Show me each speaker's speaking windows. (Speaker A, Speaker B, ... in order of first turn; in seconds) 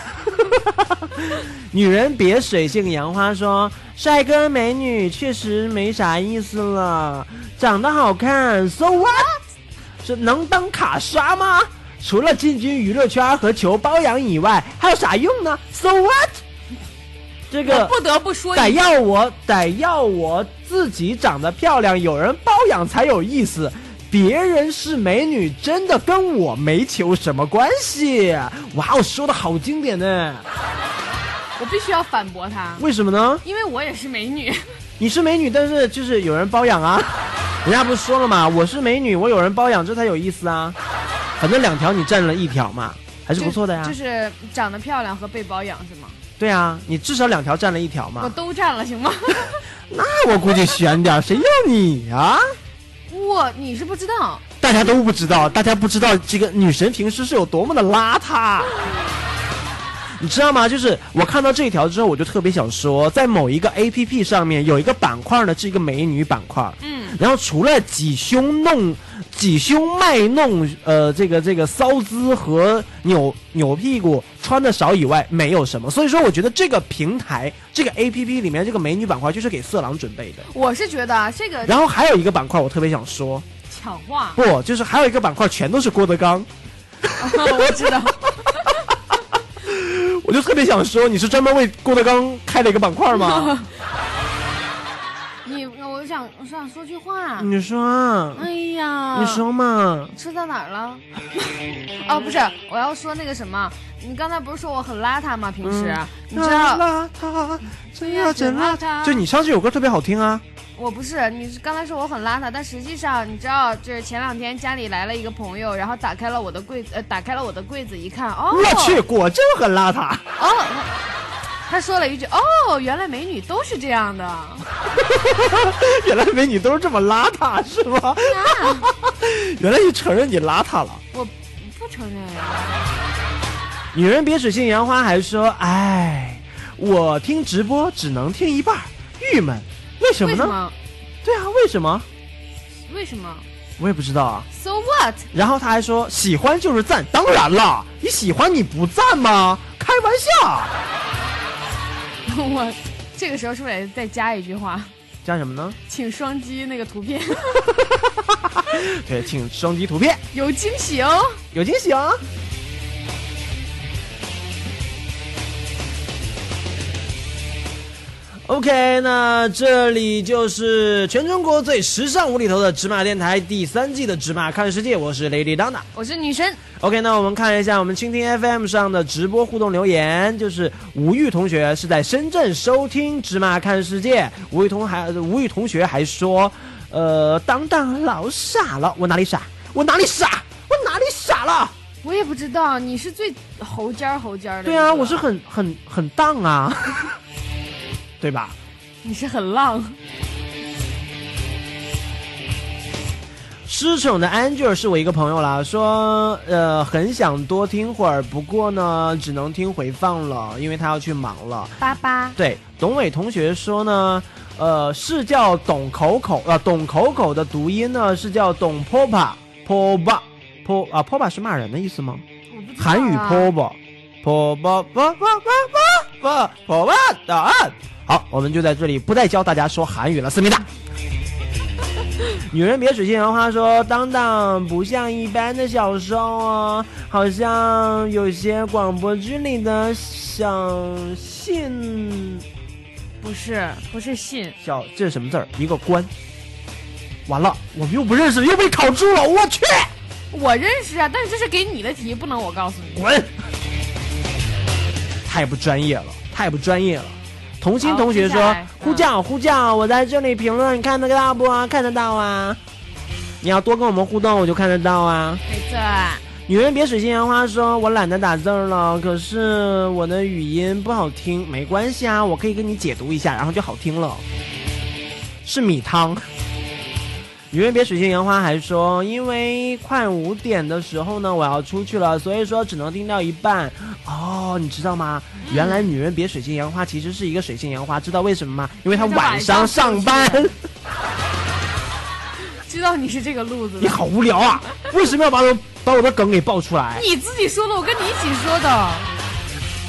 Speaker A: 0.4-9.3, 10.0-16.4, 17.5-18.0, 18.5-30.4, 32.8-33.4, 35.0-40.8, 41.4-43.9, 46.4-48.3, 49.9-52.4, 54.6-58.7, 60.2-80.5, 81.6-83.5, 84.3-86.5, 87.0-88.1, 89.6-93.5, 97.4-98.5, 99.1-100.1, 105.6-110.4, 118.5-120.2, 124.9-131.0, 133.9-140.6, 141.2-142.1, 143.8-144.5, 145.3-150.7, 155.2-155.8, 157.9-160.2, 161.5-162.2, 168.4-175.8, 176.8-191.7, 194.6-197.1, 198.2-198.6, 203.7-211.8, 212.3-222.2, 222.8-230.7, 232.3-242.4, 244.6-246.1, 247.3-249.9, 252.9-253.3, 255.2-262.6, 263.4-265.4, 266.4-274.2, 275.4-276.2, 277.5-290.5, 293.8-297.1
Speaker B: 17.6-18.8, 31.6-32.9, 33.4-34.6, 43.4-46.2, 48.2-49.6, 53.1-54.4, 66.8-67.2, 80.5-81.8, 83.7-84.4, 87.2-88.7, 93.1-93.7, 95.4-97.5, 98.3-99.4, 100.1-101.0, 102.0-106.8, 108.0-109.2, 110.8-119.0, 120.4-120.9, 121.7-124.6, 128.2-128.9, 131.1-132.8, 140.2-140.7, 142.9-143.4, 144.5-145.3, 152.2-154.9, 155.9-157.7, 160.3-161.4, 175.9-176.6, 192.0-195.2, 199.0-199.9, 211.8-212.3, 222.5-223.5, 243.2-244.6, 250.3-253.0, 257.8-259.1, 265.5-266.2, 285.4-285.9, 288.9-290.5, 292.6-294.0, 296.9-299.1